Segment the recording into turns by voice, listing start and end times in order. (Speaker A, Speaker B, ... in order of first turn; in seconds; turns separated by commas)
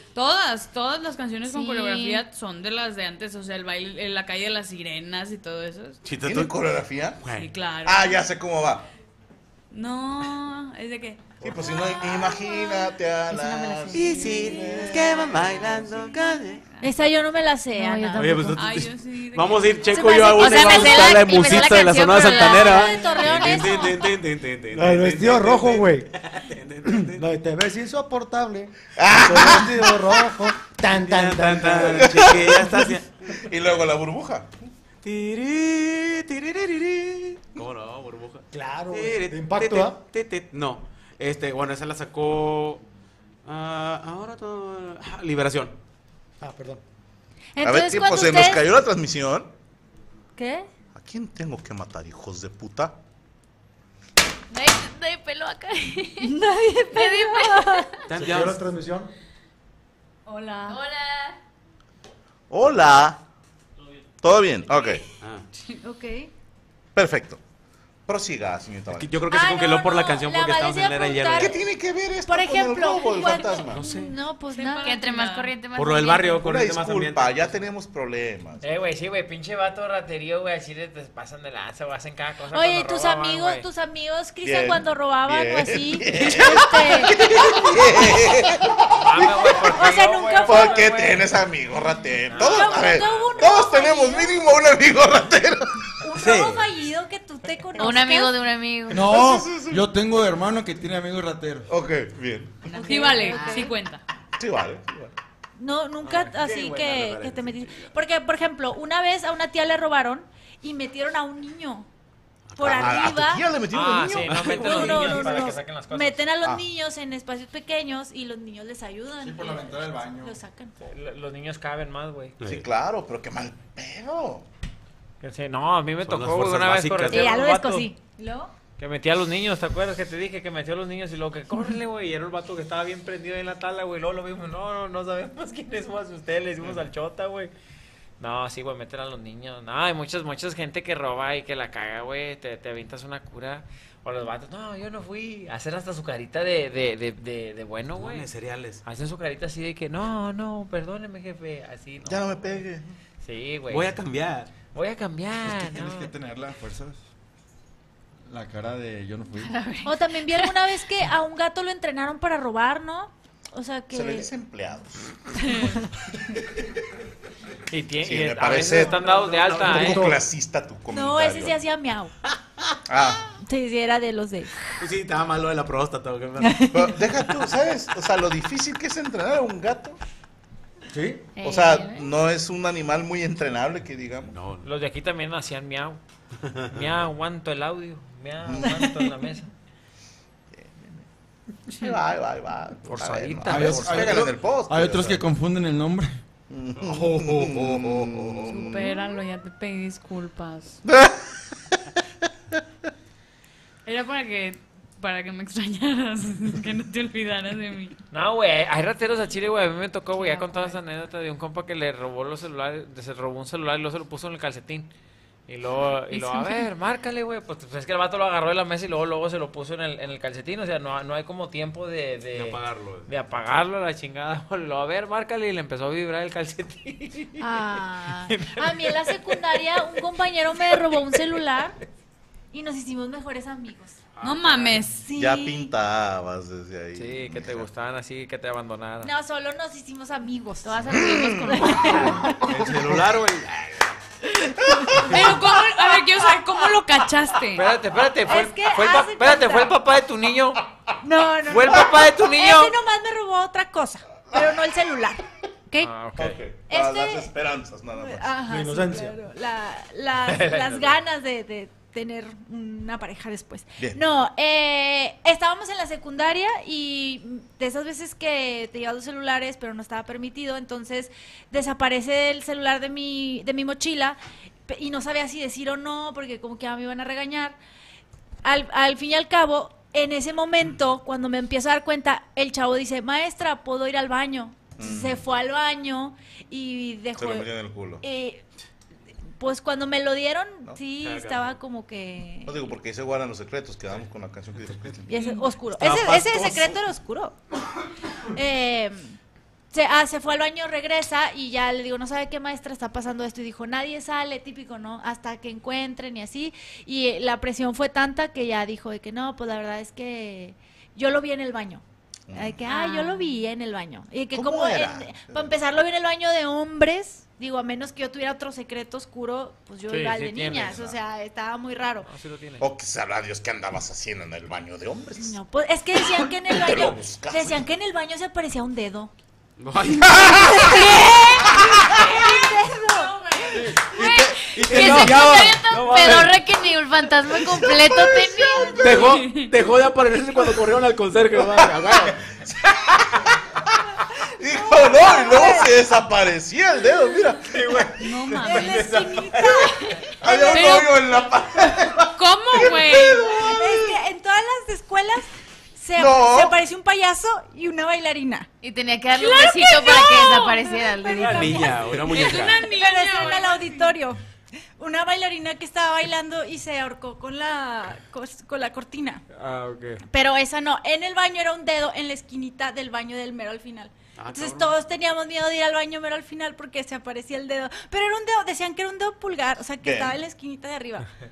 Speaker A: 0.1-6.0, Speaker B: 1.5-2.2, Speaker C: 6.0-6.5, Speaker D: 6.2-7.2, Speaker C: 7.2-7.5, Speaker A: 7.3-8.2, Speaker D: 7.8-8.9, Speaker A: 9.7-11.2, Speaker D: 11.4-16.0, Speaker B: 11.9-12.4, Speaker B: 13.3-14.5, Speaker C: 13.9-16.6, Speaker E: 16.8-18.4, Speaker B: 17.7-18.4, Speaker C: 18.1-27.3, Speaker A: 18.5-20.2, Speaker E: 19.9-21.2, Speaker B: 20.3-23.1, Speaker E: 22.2-24.1, Speaker F: 24.7-26.2, Speaker F: 26.8-32.3, Speaker D: 28.9-30.1, Speaker C: 30.6-33.1, Speaker D: 31.9-34.5, Speaker C: 35.0-42.8, Speaker F: 38.5-40.0, Speaker C: 43.4-45.8, Speaker F: 46.4-46.8, Speaker E: 47.6-48.6, Speaker D: 47.6-49.5, Speaker E: 50.4-50.7, Speaker D: 50.9-53.0, Speaker B: 54.5-56.3, Speaker E: 56.2-58.0, Speaker B: 56.9-58.1, Speaker C: 58.1-58.6, Speaker F: 58.1-59.1, Speaker A: 60.3-60.8, Speaker B: 60.6-61.4, Speaker D: 62.5-63.2, Speaker D: 64.2-65.0, Speaker C: 65.2-65.5, Speaker E: 65.8-66.3, Speaker D: 66.9-67.4, Speaker D: 68.1-69.2, Speaker C: 68.9-71.6, Speaker E: 69.3-71.6, Speaker D: 71.3-73.8, Speaker E: 72.3-75.0, Speaker C: 73.7-74.1, Speaker A: 74.5-75.5, Speaker B: 74.8-76.4, Speaker C: 75.7-77.6, Speaker D: 76.4-78.6, Speaker G: 78.6-83.7, Speaker E: 82.5-87.7, Speaker D: 84.4-89.5, Speaker G: 88.9-91.3, Speaker E: 89.6-91.1, Speaker D: 90.4-95.9, Speaker G: 92.3-93.3, Speaker E: 92.3-94.3, Speaker E: 96.0-98.4, Speaker C: 96.2-96.6, Speaker B: 97.7-99.1, Speaker H: 98.9-101.7, Speaker D: 98.9-99.8, Speaker D: 101.7-102.7, Speaker B: 102.7-103.7, Speaker E: 102.7-103.8, Speaker A: 102.8-104.0, Speaker D: 104.4-105.2, Speaker E: 105.6-111.9, Speaker C: 106.0-107.9, Speaker C: 112.5-113.1, Speaker E: 112.6-113.5, Speaker D: 112.6-115.1, Speaker G: 113.7-116.2, Speaker C: 114.3-115.4, Speaker E: 114.5-120.7, Speaker H: 119.2-120.3, Speaker G: 120.8-122.3, Speaker C: 122.4-122.6, Speaker D: 122.4-124.5, Speaker G: 125.2-127.9, Speaker C: 126.0-127.4, Speaker E: 127.1-128.5, Speaker G: 128.8-137.5, Speaker G: 138.2-148.2, Speaker C: 147.9-148.8, Speaker G: 148.8-152.6, Speaker D: 152.0-152.9, Speaker G: 153.2-153.9, Speaker C: 153.7-154.5, Speaker G: 154.7-156.1, Speaker H: 155.4-157.0, Speaker H: 158.3-159.5, Speaker B: 159.4-160.5, Speaker E: 159.8-164.3, Speaker D: 163.9-165.4, Speaker E: 165.4-165.9, Speaker G: 167.7-170.1, Speaker D: 168.0-171.6, Speaker C: 168.6-170.1, Speaker F: 169.8-170.1, Speaker E: 170.9-172.1, Speaker D: 172.9-173.2, Speaker E: 173.3-174.6, Speaker C: 174.8-176.7, Speaker E: 176.4-177.0, Speaker D: 176.7-180.0, Speaker F: 180.9-181.3, Speaker B: 181.3-182.0, Speaker D: 181.4-184.4, Speaker C: 184.3-184.7, Speaker G: 184.6-186.0, Speaker C: 186.4-186.8, Speaker G: 186.7-189.5, Speaker D: 188.4-188.9, Speaker D: 190.5-191.1, Speaker D: 191.7-195.2, Speaker G: 192.9-194.2, Speaker H: 193.4-196.2, Speaker D: 196.5-199.0, Speaker C: 196.8-198.4, Speaker A: 198.4-200.8, Speaker D: 200.9-201.4, Speaker A: 203.8-207.9, Speaker G: 208.1-214.9, Speaker G: 215.5-227.5, Speaker C: 222.3-223.1, Speaker E: 227.4-231.8, Speaker G: 228.1-230.0, Speaker E: 232.5-234.0, Speaker C: 234.2-234.8, Speaker A: 234.2-235.1, Speaker E: 234.9-235.7, Speaker D: 235.1-237.7, Speaker G: 236.9-239.1, Speaker E: 239.0-242.5, Speaker B: 240.6-242.1, Speaker D: 240.9-242.2, Speaker C: 242.3-243.9, Speaker A: 244.9-247.7, Speaker G: 247.5-250.6, Speaker E: 248.2-249.7, Speaker E: 251.0-255.9, Speaker G: 251.5-252.8, Speaker G: 255.8-256.4, Speaker D: 256.2-258.3, Speaker E: 256.7-257.3, Speaker E: 258.0-277.6, Speaker F: 258.4-259.2, Speaker G: 260.2-260.9, Speaker E: 278.4-287.5, Speaker D: 284.8-285.3, Speaker D: 287.1-288.0, Speaker E: 288.0-288.4, Speaker E: 289.4-292.6, Speaker C: 291.0-291.6, Speaker D: 292.4-295.2, Speaker E: 295.1-297.4, Speaker A: 295.2-295.5, Speaker C: 295.7-296.8, Speaker E: 298.2-299.2, Speaker E: 299.7-322.1, Speaker D: 312.3-312.6, Speaker B: 312.8-313.1, Speaker D: 314.3-315.6, Speaker G: 319.9-320.7, Speaker D: 320.6-321.0, Speaker G: 322.0-322.7, Speaker D: 322.6-325.4, Speaker E: 325.2-329.1, Speaker D: 326.4-327.6, Speaker C: 329.6-330.9, Speaker E: 330.2-333.5, Speaker A: 332.9-333.5, Speaker C: 333.5-336.5, Speaker B: 333.9-338.8, Speaker E: 334.1-335.6, Speaker C: 337.4-337.9, Speaker E: 338.4-339.1, Speaker C: 338.7-342.2, Speaker A: 338.9-339.5, Speaker D: 342.1-343.3, Speaker D: 344.3-347.8, Speaker E: 344.6-345.7, Speaker A: 348.0-349.0, Speaker G: 348.1-348.7, Speaker E: 348.4-350.8, Speaker C: 348.4-349.6, Speaker D: 350.2-354.0, Speaker A: 350.4-351.0, Speaker A: 351.9-353.4, Speaker E: 353.4-358.5, Speaker D: 355.9-356.6, Speaker B: 358.6-361.6, Speaker A: 359.2-360.8, Speaker E: 359.2-364.2, Speaker C: 361.1-362.7, Speaker A: 362.0-364.0, Speaker E: 364.8-369.2, Speaker G: 369.3-370.0, Speaker E: 370.1-381.1, Speaker C: 374.2-374.7, Speaker D: 379.8-380.2